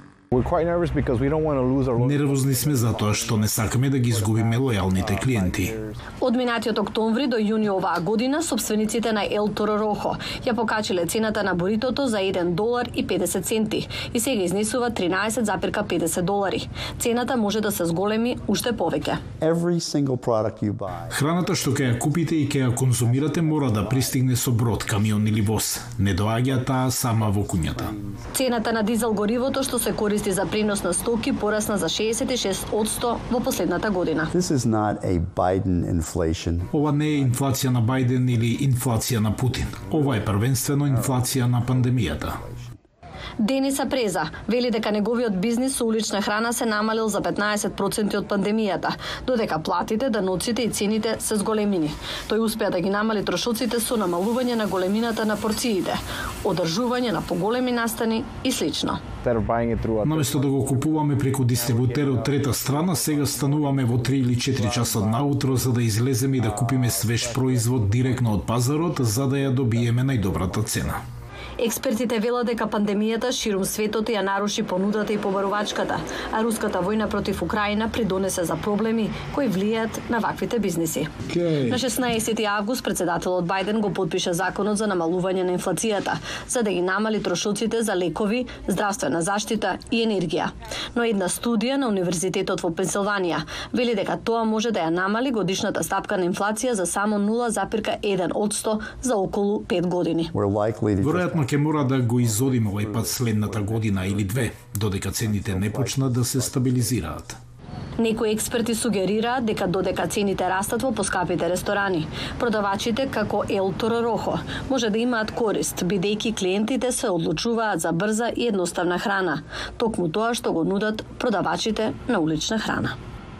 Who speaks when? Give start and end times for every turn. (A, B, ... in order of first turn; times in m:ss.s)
0:00.3-0:05.9 A
0:02.0-0:05.8 B
0:06.2-0:19.2 C
0:19.4-0:21.2 D
0:21.1-0:27.9 B
0:22.7-0:24.4 D
0:27.7-0:28.2 D
0:28.3-0:34.3 C
0:34.3-0:37.2 D
0:36.7-0:42.4 B
0:40.9-0:41.9 D
0:42.4-0:42.6 D
0:43.4-0:59.0 C
0:59.2-1:05.8 A
1:00.0-1:11.0 B
1:06.3-1:08.5 A
1:09.1-1:10.9 A
1:11.6-1:40.3 C
1:40.3-1:44.0 D
1:41.0-1:47.4 B
1:45.2-1:46.9 D
1:48.0-2:02.9 C